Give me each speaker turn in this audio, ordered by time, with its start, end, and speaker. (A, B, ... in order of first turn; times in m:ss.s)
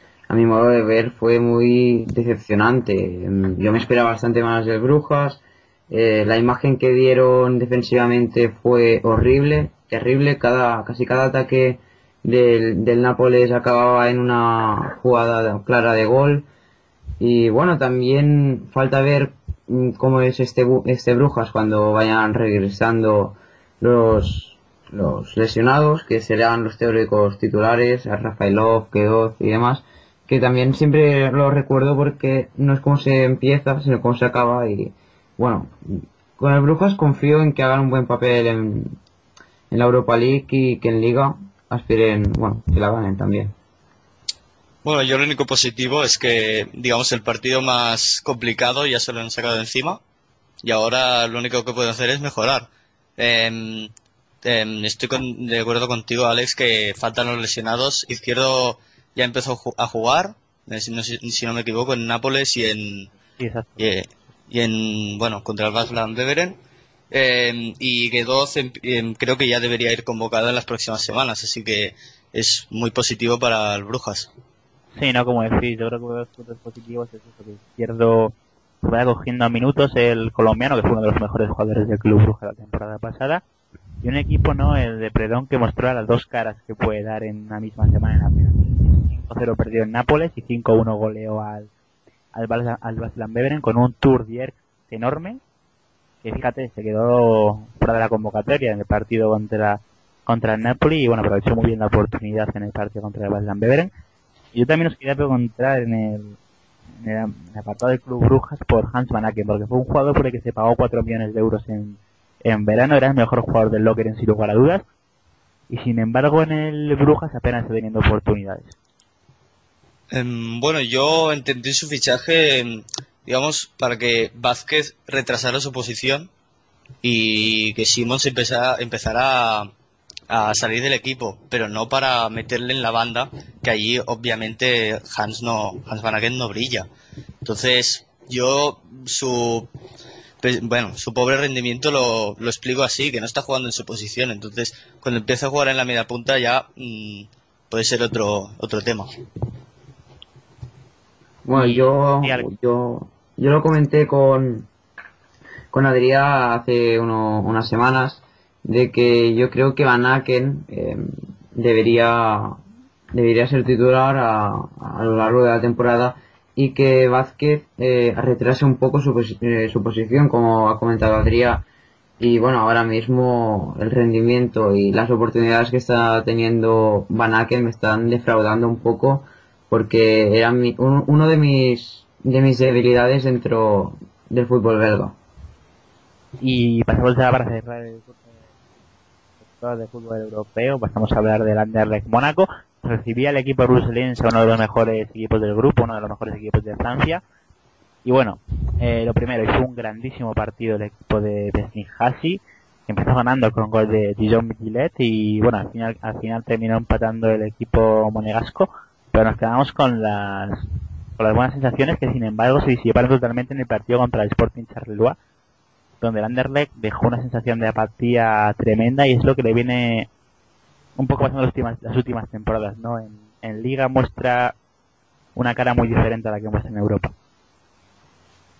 0:00.3-0:16.4 A
0:17.2-0:39.0 A
0:39.7-0:43.5 A
0:44.8-0:50.0 B
0:50.6-0:53.9 B
0:54.4-1:03.1 B
1:03.4-1:03.9 C
1:03.8-1:06.6 B
1:07.1-1:14.3 B
1:14.9-1:23.4 C
1:24.0-1:31.7 C
1:32.3-1:35.4 C
1:36.2-1:43.9 C
1:44.5-1:46.4 C
1:47.0-1:54.8 C
1:55.7-1:58.7 C
2:00.1-2:06.3 B
2:07.0-2:09.7 B
2:10.3-2:16.9 B
2:17.4-2:19.7 B
2:20.4-2:29.1 B
2:31.4-2:34.7 A
2:31.5-2:32.5 C
2:35.7-2:42.6 A
2:43.1-2:51.6 A
2:52.2-3:05.2 A
3:06.4-3:08.2 C
3:09.4-3:17.2 C
3:18.0-3:30.7 C
3:31.2-3:35.2 C
3:36.0-3:40.1 C
3:41.0-3:44.5 C
3:45.3-3:47.1 C